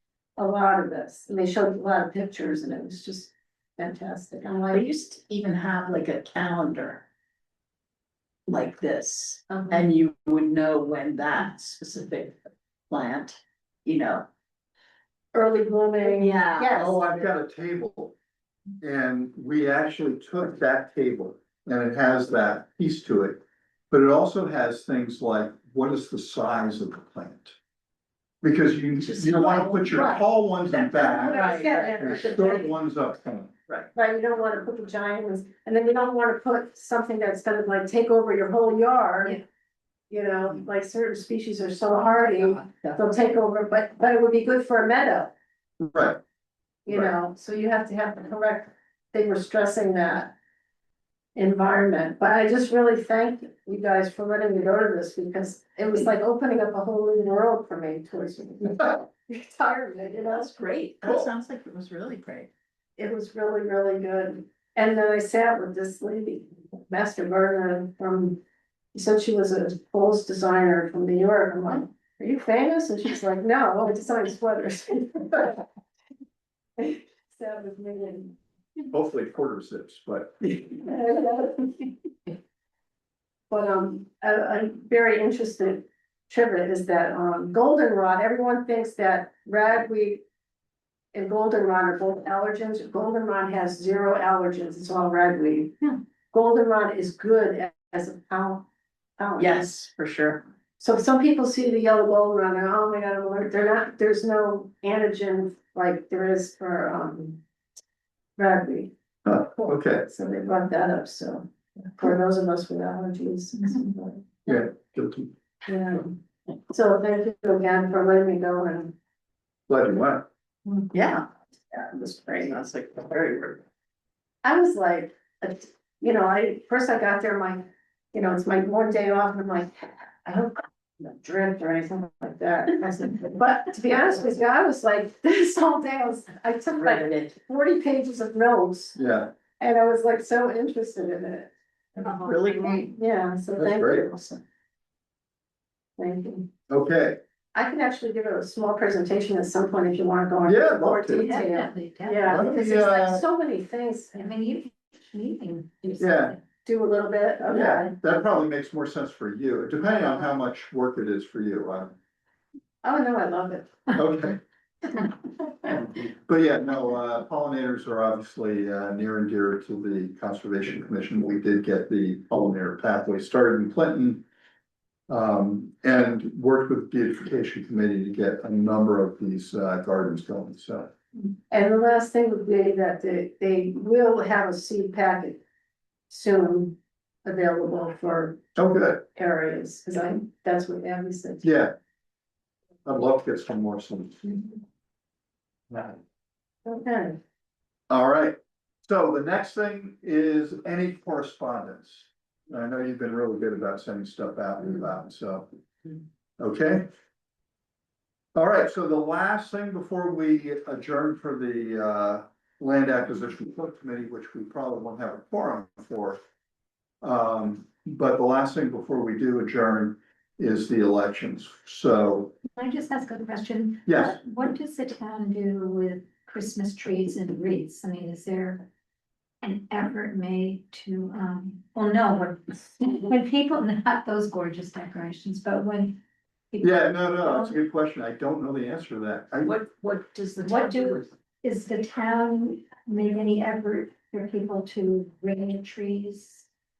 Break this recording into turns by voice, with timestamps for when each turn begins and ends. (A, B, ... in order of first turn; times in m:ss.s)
0:00.4-0:04.9 A
0:04.7-0:07.0 B
0:08.5-0:12.4 B
0:09.5-0:09.8 A
0:12.9-0:14.3 B
0:15.3-0:17.1 A
0:16.0-0:17.0 B
0:16.8-0:18.2 C
0:18.8-0:23.4 C
0:23.9-0:27.5 C
0:28.4-0:33.5 C
0:29.0-0:32.5 B
0:31.1-0:32.7 A
0:33.9-0:39.4 A
0:40.1-0:45.3 A
0:45.8-0:46.2 C
0:46.8-0:50.3 A
0:51.4-1:00.7 A
1:00.3-1:02.5 B
1:01.0-1:01.3 C
1:03.0-1:08.4 A
1:08.9-1:15.6 A
1:16.8-1:18.4 A
1:18.9-1:20.8 C
1:20.8-1:21.9 A
1:23.5-1:30.2 A
1:31.1-1:38.7 A
1:39.2-1:39.7 A
1:39.4-1:40.4 B
1:40.8-1:47.4 A
1:48.4-1:48.9 A
1:49.2-1:50.1 C
1:50.0-1:54.6 A
1:54.5-1:55.3 C
1:55.6-1:56.1 A
1:56.7-1:58.9 A
1:59.7-2:00.3 C
2:00.9-2:03.6 B
2:01.9-2:02.5 A
2:04.4-2:19.0 A
2:16.8-2:17.3 B
2:19.0-2:19.3 C
2:19.6-2:24.4 A
2:22.0-2:22.9 B
2:23.6-2:24.1 C
2:26.0-2:26.5 A
2:26.7-2:27.2 C
2:27.5-2:34.3 A
2:30.4-2:31.4 C
2:31.2-2:32.5 D
2:32.2-2:33.2 C
2:34.2-2:36.4 D
2:36.0-2:36.4 C
2:36.6-2:37.9 A
2:37.5-2:41.9 C
2:42.8-2:43.9 A
2:43.9-2:44.4 C
2:45.6-2:54.2 C
2:55.1-3:00.9 C
3:01.5-3:05.4 A
3:06.1-3:08.4 A
3:08.6-3:09.0 C
3:09.1-3:11.5 A
3:11.4-3:11.7 C
3:12.8-3:14.4 C
3:15.7-3:16.0 C
3:16.6-3:17.2 A
3:17.9-3:25.5 C
3:26.4-3:26.9 C
3:28.3-3:36.2 C
3:37.0-3:42.3 C
3:42.5-3:48.7 D
3:43.8-3:44.2 C
3:49.4-3:56.0 D
3:56.5-3:57.6 D
3:56.6-3:59.5 C
3:59.4-4:01.1 B
4:00.4-4:06.5 D